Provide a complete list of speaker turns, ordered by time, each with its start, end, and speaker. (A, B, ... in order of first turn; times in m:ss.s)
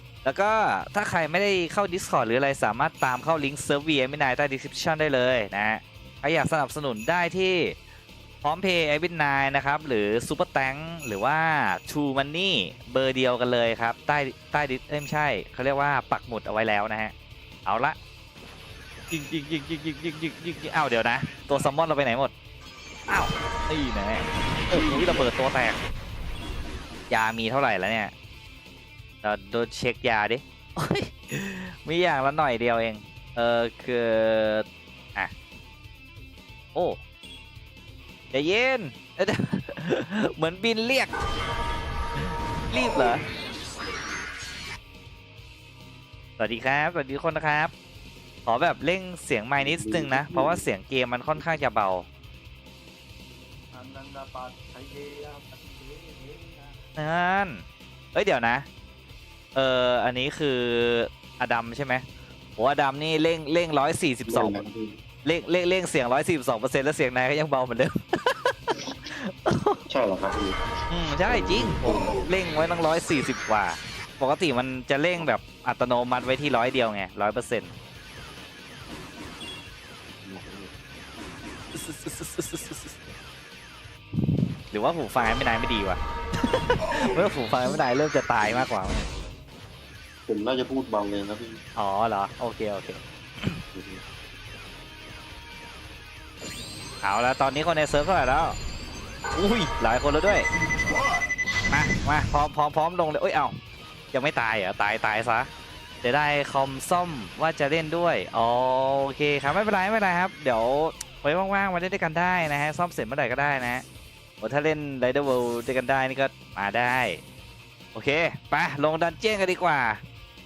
0:00.2-0:07.8 A
0:08.4-0:17.1 A
0:17.6-0:18.0 A
0:19.1-0:22.3 A
0:23.1-0:25.8 A
0:27.1-0:28.1 A
0:29.2-0:35.3 A
0:36.7-0:37.0 A
0:38.3-0:41.1 A
0:42.2-0:43.2 A
0:46.4-0:47.7 A
0:48.4-0:52.1 A
0:49.6-0:50.6 B
0:53.7-0:56.8 C
0:57.0-0:57.6 A
0:58.1-0:58.6 A
0:59.5-1:02.0 A
1:02.6-1:04.6 A
1:04.2-1:04.9 B
1:05.2-1:09.8 A
1:09.9-1:12.2 B
1:10.9-1:17.7 A
1:20.2-1:20.7 B
1:21.7-1:23.0 A
1:24.7-1:29.1 A
1:30.3-1:31.6 B
1:31.8-1:33.6 A
1:33.7-1:34.0 B
1:37.0-1:38.6 A
1:39.3-1:40.5 A
1:41.7-1:43.5 A
1:44.1-1:45.5 A
1:46.0-1:53.8 A
1:54.4-1:57.2 A
1:57.9-2:00.0 A